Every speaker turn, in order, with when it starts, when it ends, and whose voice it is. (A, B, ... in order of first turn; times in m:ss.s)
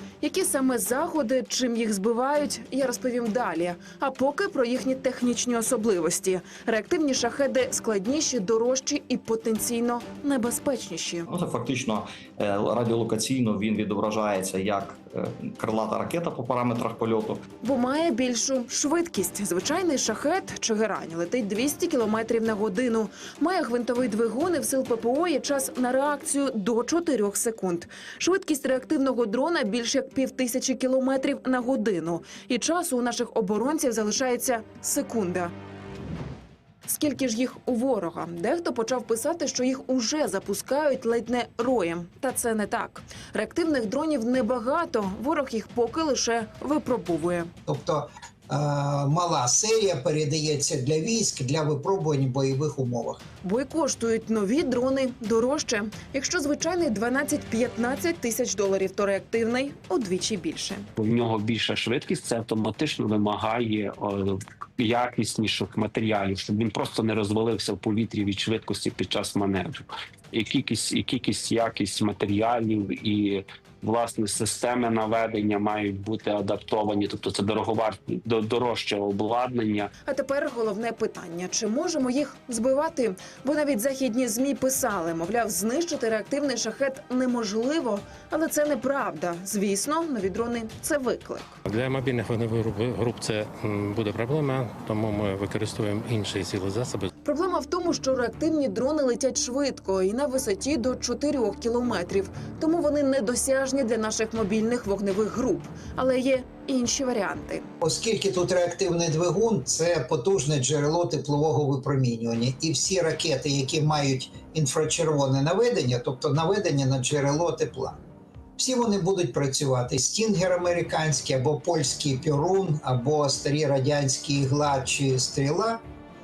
0:00.2-0:11.2 A
0:11.3-0:17.4 B
0:17.6-0:35.5 A
0:36.9-0:47.5 A
0:47.7-0:53.2 C
0:53.4-1:00.9 A
1:01.0-1:19.9 D
1:20.1-1:31.6 A
1:31.7-1:37.1 E
1:37.2-1:47.7 A
1:47.8-1:58.0 C
1:58.6-2:05.8 C